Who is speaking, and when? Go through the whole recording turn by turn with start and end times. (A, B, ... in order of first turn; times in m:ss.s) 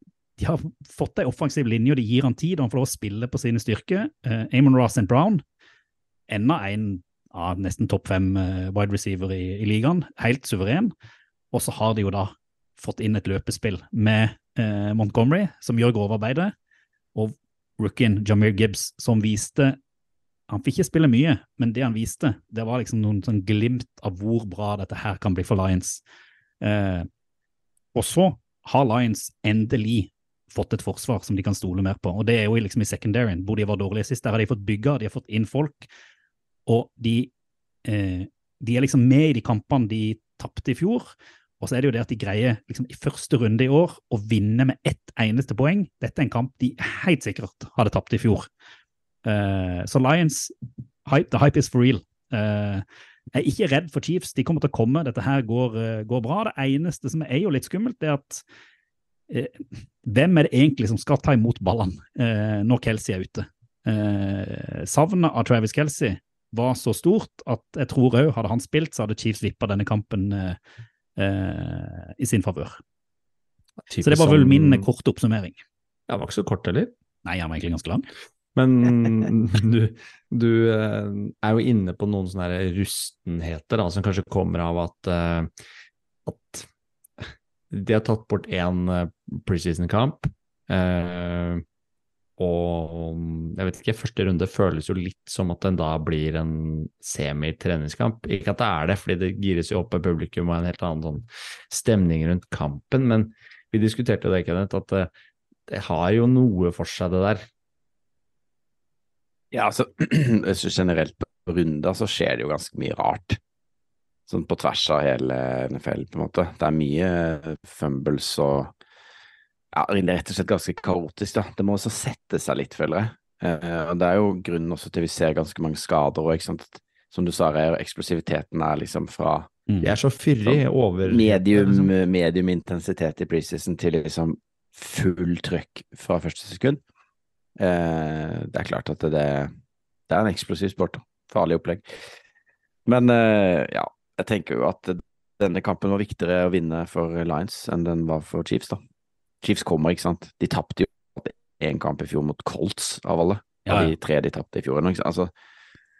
0:00.4-0:05.4 A
0:06.3-0:10.9 A
0:11.5-0:16.5 A
0:17.2-0:19.8 A
0:20.5-0:26.0 A
0:26.6-0:27.1 A
0:28.0-0:35.9 A
0:36.7-0:37.3 A
0:37.8-0:48.5 A
0:49.2-0:50.5 A
0:51.1-0:58.4 A
0:59.3-1:10.6 A
1:11.2-1:12.8 A
1:13.8-1:14.9 B
1:14.0-1:15.6 A
1:16.1-1:16.9 B
1:17.2-1:18.1 A
1:18.6-1:25.5 B
1:26.3-1:26.7 B
1:27.2-1:31.6 B
1:32.4-1:45.1 B
1:45.7-1:47.5 B
1:49.5-1:53.4 C
1:54.3-1:58.7 C
1:59.7-2:09.6 C
2:09.7-2:10.0 A
2:09.8-2:11.9 B
2:10.5-2:16.8 C
2:17.6-2:19.5 C
2:20.1-2:22.0 C
2:22.9-2:28.8 C
2:29.4-2:35.3 C
2:33.7-2:33.9 A